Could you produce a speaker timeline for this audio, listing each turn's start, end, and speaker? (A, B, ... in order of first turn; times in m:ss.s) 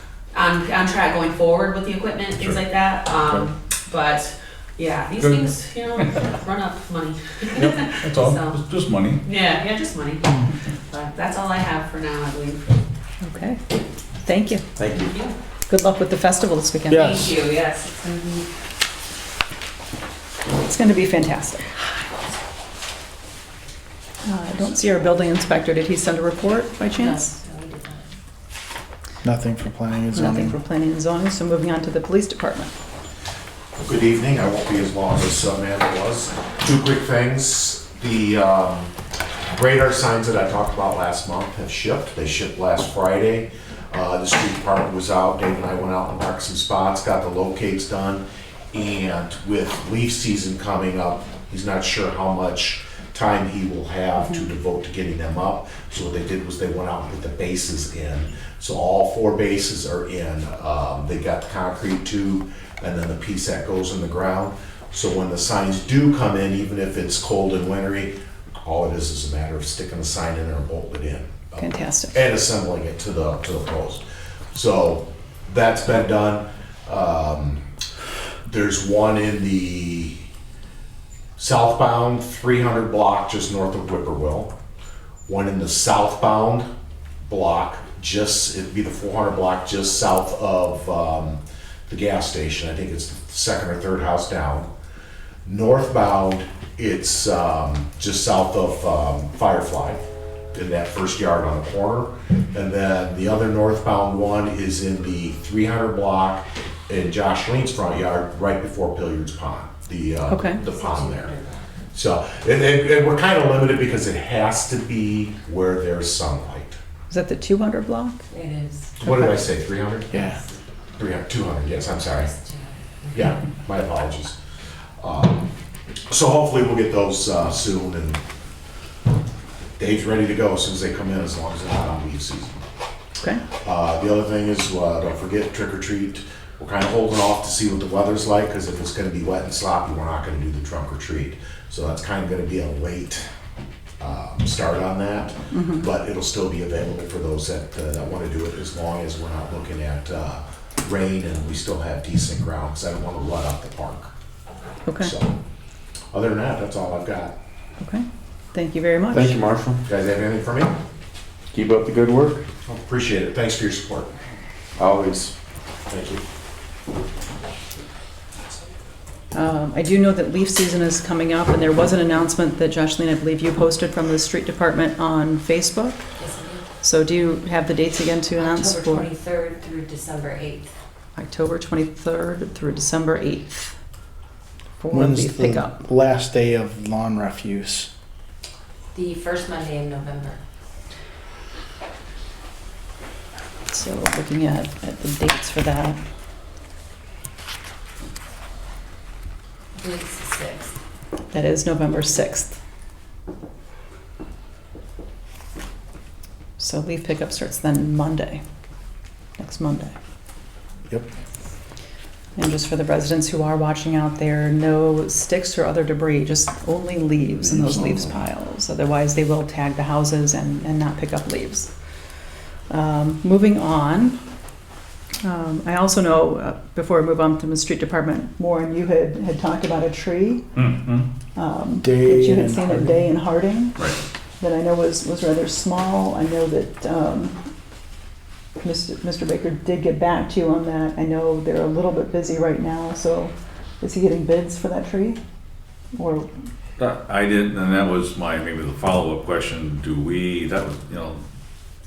0:00.3-0:08.6 A
0:03.1-0:03.5 B
0:05.2-0:06.2 B
0:07.5-0:09.2 B
0:09.2-0:12.6 A
0:13.2-0:13.6 C
0:14.2-0:14.6 C
0:14.8-0:15.1 D
0:14.9-0:15.3 A
0:15.7-0:17.2 C
0:16.9-0:18.2 A
0:20.6-0:21.7 C
0:24.2-0:27.3 C
0:27.0-0:28.0 E
0:29.2-0:30.2 F
0:29.9-0:30.5 D
0:30.1-0:32.7 C
0:33.8-0:38.9 G
0:39.5-1:17.6 G
0:54.2-0:54.4 C
1:11.6-1:12.2 C
1:18.4-1:20.2 G
1:21.4-1:24.5 G
1:25.3-1:26.7 G
1:27.2-1:34.7 G
1:35.4-1:51.3 G
1:50.3-1:50.6 C
1:50.8-1:51.6 E
1:51.9-1:56.8 G
1:57.1-1:58.2 C
1:58.3-1:58.9 E
1:59.0-2:00.1 G
2:01.0-2:02.3 G
2:02.4-2:03.1 E
2:03.1-2:04.4 G
2:05.0-2:05.5 G
2:06.1-2:08.2 G
2:09.8-2:12.5 G
2:13.6-2:23.3 G
2:24.0-2:34.1 G
2:25.5-2:25.9 C
2:34.8-2:35.1 C
2:35.0-2:35.4 G
2:36.1-2:37.4 G
2:37.8-2:39.4 C
2:39.1-2:39.8 D
2:39.8-2:40.7 G
2:41.5-2:42.4 D
2:42.6-2:44.1 G
2:44.8-2:45.3 D
2:45.9-2:46.2 G
2:49.3-2:56.0 C
2:56.2-2:56.6 E
2:56.8-2:59.1 C
2:58.4-3:00.7 E
3:01.2-3:03.7 C
3:04.8-3:05.8 C
3:04.9-3:05.6 D
3:05.7-3:07.9 F
3:07.2-3:07.7 D
3:08.9-3:10.4 E
3:13.7-3:16.0 C
3:19.8-3:20.7 E
3:21.3-3:22.6 C
3:26.6-3:28.4 C
3:29.4-3:29.9 C
3:32.4-3:41.7 C
3:37.4-3:37.7 D
3:42.7-3:44.2 C
3:45.2-3:50.4 C
3:50.5-3:51.1 B
3:51.4-3:53.8 C
3:51.8-3:52.9 D
3:54.4-3:57.4 C
3:58.6-4:05.2 C
4:05.9-4:06.3 C
4:06.8-4:11.2 B